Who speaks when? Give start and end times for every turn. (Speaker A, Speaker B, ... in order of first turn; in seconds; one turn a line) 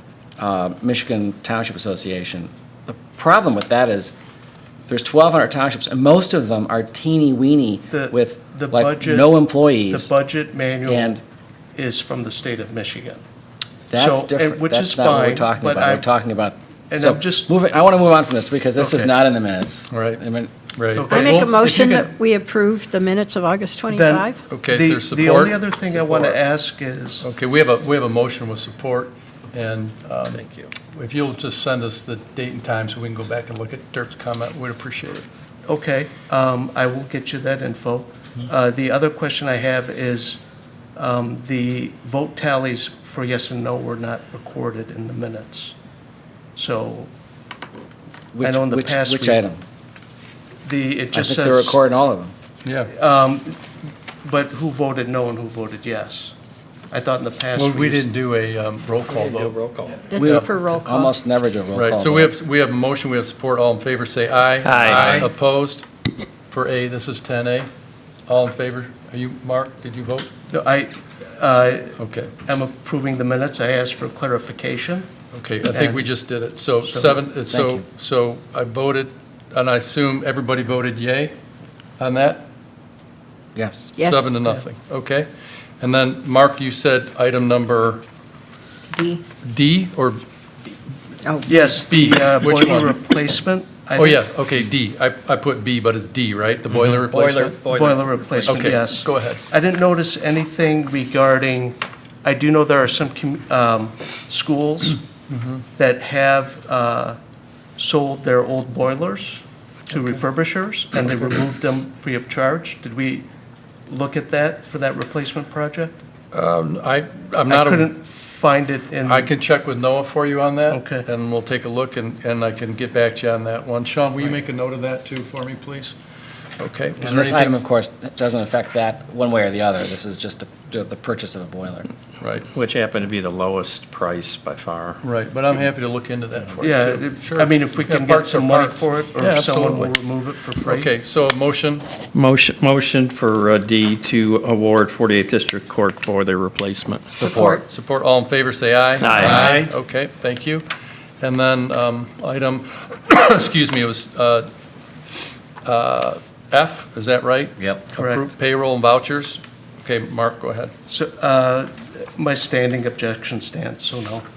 Speaker A: 0.4-4.1
Speaker A: 4.9-10.1
Speaker B: 7.9-9.3
Speaker B: 9.9-11.2
Speaker A: 10.8-11.2
Speaker B: 11.8-13.2
Speaker A: 13.9-20.5
Speaker B: 13.9-16.1
Speaker B: 16.9-17.5
Speaker B: 18.8-19.1
Speaker C: 19.9-20.2
Speaker C: 20.8-21.5
Speaker B: 21.0-22.1
Speaker D: 21.1-24.4
Speaker B: 23.9-27.3
Speaker C: 24.5-26.4
Speaker C: 27.2-35.2
Speaker E: 30.3-30.7
Speaker B: 35.7-40.4
Speaker B: 41.0-45.8
Speaker B: 46.6-47.1
Speaker A: 48.3-49.6
Speaker B: 48.4-49.4
Speaker B: 50.6-51.8
Speaker A: 51.1-52.3
Speaker C: 52.6-52.9
Speaker B: 52.9-53.6
Speaker B: 54.2-56.3
Speaker B: 56.9-58.1
Speaker C: 57.5-59.6
Speaker E: 59.1-60.1
Speaker D: 60.1-61.1
Speaker A: 60.2-62.3
Speaker C: 60.2-60.5
Speaker C: 61.7-65.8
Speaker E: 64.6-65.3
Speaker C: 66.5-67.7
Speaker C: 68.3-70.3
Speaker B: 70.5-75.1
Speaker C: 72.0-72.3
Speaker C: 75.3-81.3
Speaker B: 75.7-76.2
Speaker B: 76.8-77.2
Speaker A: 77.5-77.8
Speaker C: 82.0-82.5
Speaker A: 83.5-83.9
Speaker D: 84.0-84.3
Speaker C: 84.0-85.3
Speaker C: 85.8-88.0
Speaker D: 88.9-89.2
Speaker C: 89.4-90.2
Speaker D: 91.2-92.0
Speaker B: 91.5-94.3
Speaker C: 91.9-92.9
Speaker C: 94.0-97.6
Speaker E: 96.7-98.7
Speaker B: 97.7-105.0
Speaker C: 98.4-99.4
Speaker C: 105.3-105.6
Speaker B: 105.8-107.2
Speaker B: 107.8-113.3
Speaker B: 113.9-116.0
Speaker C: 116.3-117.9
Speaker B: 117.5-119.3
Speaker C: 119.0-126.0
Speaker B: 120.7-121.1
Speaker C: 126.6-127.5
Speaker A: 127.0-131.9
Speaker C: 132.2-132.5
Speaker E: 132.5-135.0
Speaker C: 135.0-140.0
Speaker B: 136.6-141.0
Speaker C: 140.6-141.9
Speaker E: 142.1-147.2
Speaker A: 147.2-147.6
Speaker D: 147.2-147.7
Speaker C: 147.6-150.7
Speaker E: 149.0-149.7
Speaker A: 149.2-149.5
Speaker C: 151.2-154.5
Speaker C: 155.6-160.7
Speaker B: 158.0-158.3
Speaker B: 160.9-164.2